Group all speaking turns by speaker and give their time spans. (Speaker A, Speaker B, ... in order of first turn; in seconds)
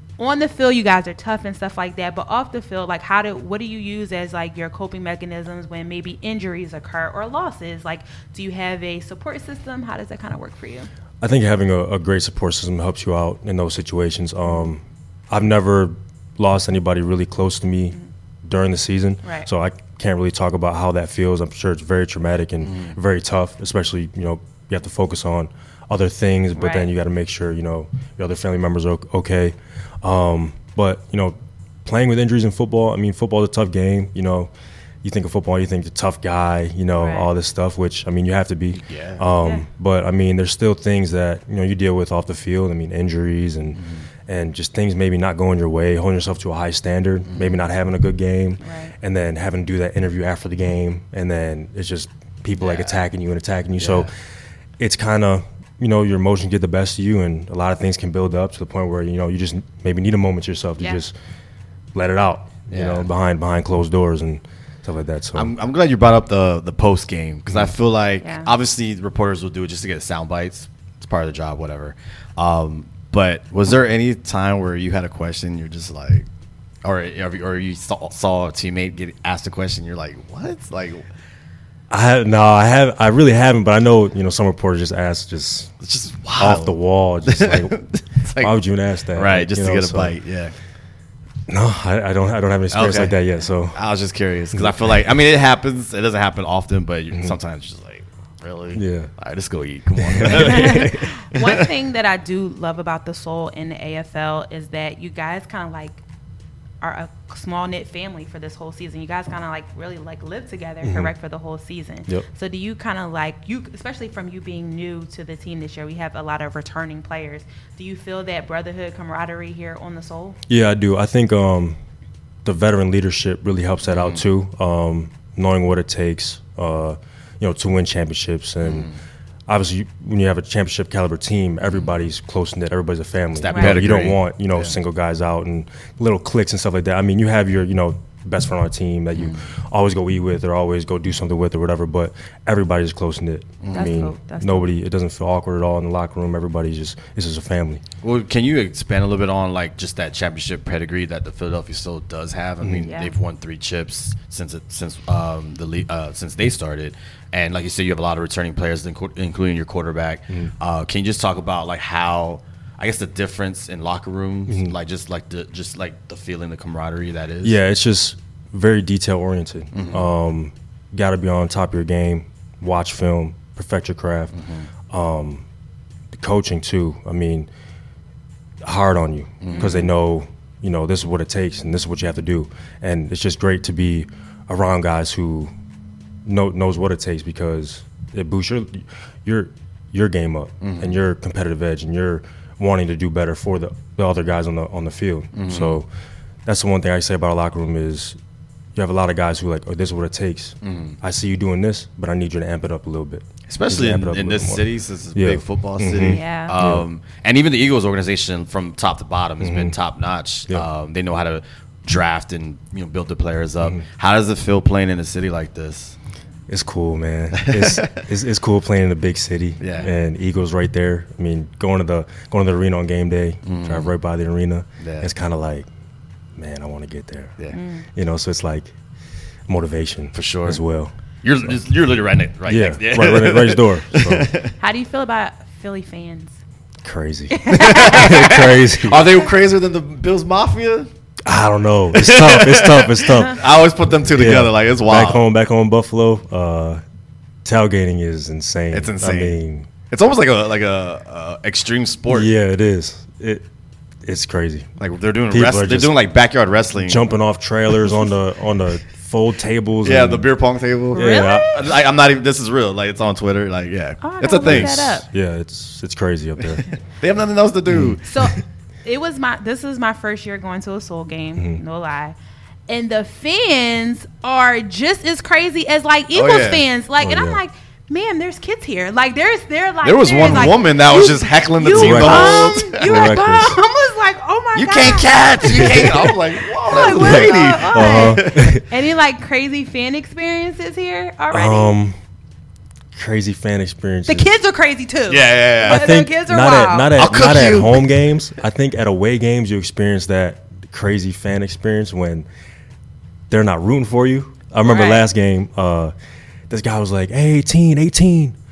Speaker A: 0.2-10.9, 19.2-19.5, 26.6-26.9, 37.0-37.3, 48.6-48.9, 68.2-68.5, 100.2-106.0, 106.8-120.4, 133.5-133.8, 143.7-144.7, 152.8-153.1, 179.5-179.9, 206.1-206.5, 227.5-227.9, 234.6-236.4, 237.3-238.4, 260.9-261.7, 264.0-265.1, 268.0-272.2, 272.7-291.7, 294.1-296.9, 304.6-305.1
Speaker B: 11.2-34.5, 35.0-54.1, 54.8-61.1, 61.9-65.5, 81.9-85.7, 86.4-87.8, 88.4-90.2, 91.5-93.8, 94.5-94.9, 98.7-99.1, 100.0-101.1, 110.8-111.1, 120.5-121.8, 122.5-128.9, 129.5-147.8, 152.6-152.9, 164.5-164.8, 167.4-174.3, 174.9-175.4, 176.1-177.5, 178.6-185.5, 186.2-195.9, 196.5-198.2, 198.8-206.9, 209.4-209.8, 216.5-225.7, 226.4-227.3, 227.9-228.8, 229.5-230.9, 232.5-234.3, 236.8-239.1, 241.2-243.5, 244.0-246.8, 247.4-249.7, 252.1-253.5, 254.1-254.7, 255.3-255.9, 256.8-260.3, 260.9-261.5, 264.4-266.6, 267.7-268.4, 271.4-271.6, 277.0-277.4, 280.2-280.5, 281.7-283.6, 285.4-286.1, 286.7-288.6, 291.3-292.0, 292.9-294.3, 295.6-302.3, 303.3-305.9, 306.5-308.4
Speaker C: 22.6-23.0, 38.7-39.2, 43.8-44.1, 47.3-47.6, 52.6-53.0, 53.8-54.1, 62.7-63.1, 65.3-76.3, 76.8-81.1, 85.8-86.7, 87.2-88.5, 89.2-90.5, 92.7-93.2, 93.7-101.7, 123.9-124.2, 128.6-129.0, 131.7-131.9, 133.3-134.8, 139.2-139.4, 143.6-144.0, 148.0-167.6, 169.7-170.1, 174.3-174.7, 179.4-179.8, 190.6-191.0, 195.3-195.8, 200.6-201.0, 203.5-216.0, 217.3-218.0, 219.6-219.9, 223.4-223.9, 224.8-225.1, 230.1-230.6, 231.2-234.5, 237.5-240.9, 241.9-245.2, 248.7-249.4, 249.9-252.3, 254.8-257.1, 259.8-265.0, 266.6-268.0, 276.1-276.6, 279.8-283.1, 284.6-288.6, 295.1-295.9, 297.0-297.9